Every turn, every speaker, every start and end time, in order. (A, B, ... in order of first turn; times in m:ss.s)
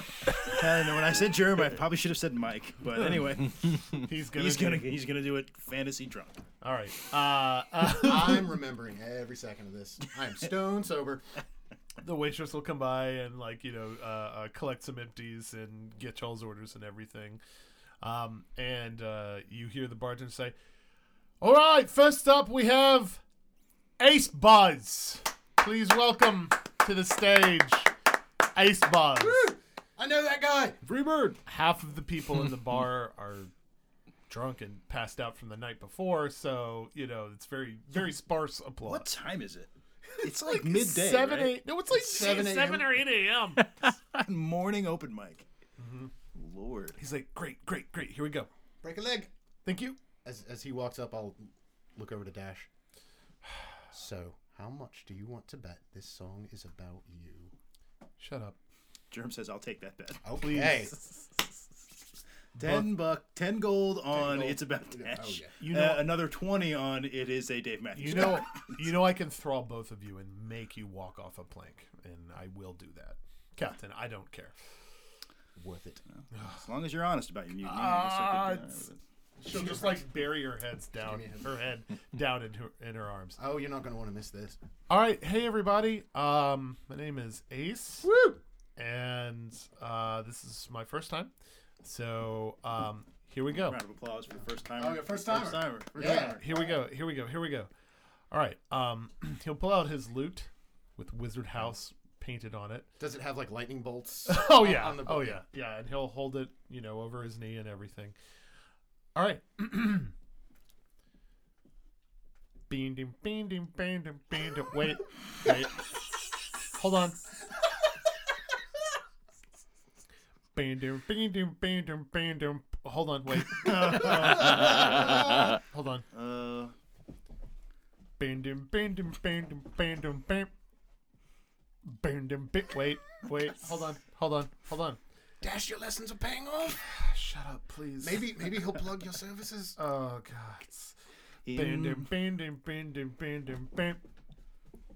0:00.3-0:06.4 A
0:03.8-0:05.0 B
0:06.6-0:08.4 B
0:07.8-0:11.3 C
0:12.0-0:17.4 B
0:18.0-0:20.5 B
0:21.4-0:23.2 B
0:24.0-0:27.9 B
0:28.5-0:29.4 B
0:29.1-0:30.8 C
0:30.8-0:33.5 B
0:34.3-0:39.1 B
0:38.8-0:41.6 A
0:40.2-0:43.7 B
0:41.9-0:43.0 C
0:44.1-0:45.4 A
0:45.8-0:46.1 B
0:46.3-0:47.0 A
0:47.0-0:48.5 B
0:48.8-0:49.3 C
0:49.6-0:50.0 B
0:50.2-0:52.7 C
0:53.9-0:57.5 C
0:58.2-0:58.6 B
0:59.1-1:00.2 A
1:00.2-1:01.0 C
1:00.4-1:01.0 B
1:02.6-1:02.9 B
1:02.6-1:08.7 A
1:04.1-1:05.5 C
1:05.6-1:06.0 B
1:07.9-1:14.5 B
1:15.6-1:16.0 C
1:16.3-1:16.6 B
1:16.5-1:19.0 A
1:17.6-1:18.8 B
1:19.4-1:20.1 C
1:19.4-1:23.4 B
1:21.0-1:21.5 C
1:23.4-1:24.6 C
1:24.9-1:28.1 B
1:28.0-1:28.4 C
1:28.8-1:31.3 B
1:31.8-1:33.8 B
1:33.7-1:36.4 A
1:34.8-1:36.8 C
1:36.0-1:37.7 B
1:38.3-1:42.9 B
1:43.0-1:45.4 C
1:44.3-1:48.2 B
1:49.1-1:50.1 B
1:52.7-1:55.8 B
1:56.7-1:57.2 B
2:00.5-2:06.0 B
2:03.6-2:05.1 A
2:03.8-2:05.5 C
2:06.1-2:06.7 A
2:08.2-2:10.5 B
2:11.8-2:15.0 B
2:15.4-2:16.8 C
2:16.8-2:18.3 B
2:18.0-2:19.8 C
2:19.8-2:20.9 B
2:21.4-2:22.1 A
2:21.5-2:24.0 B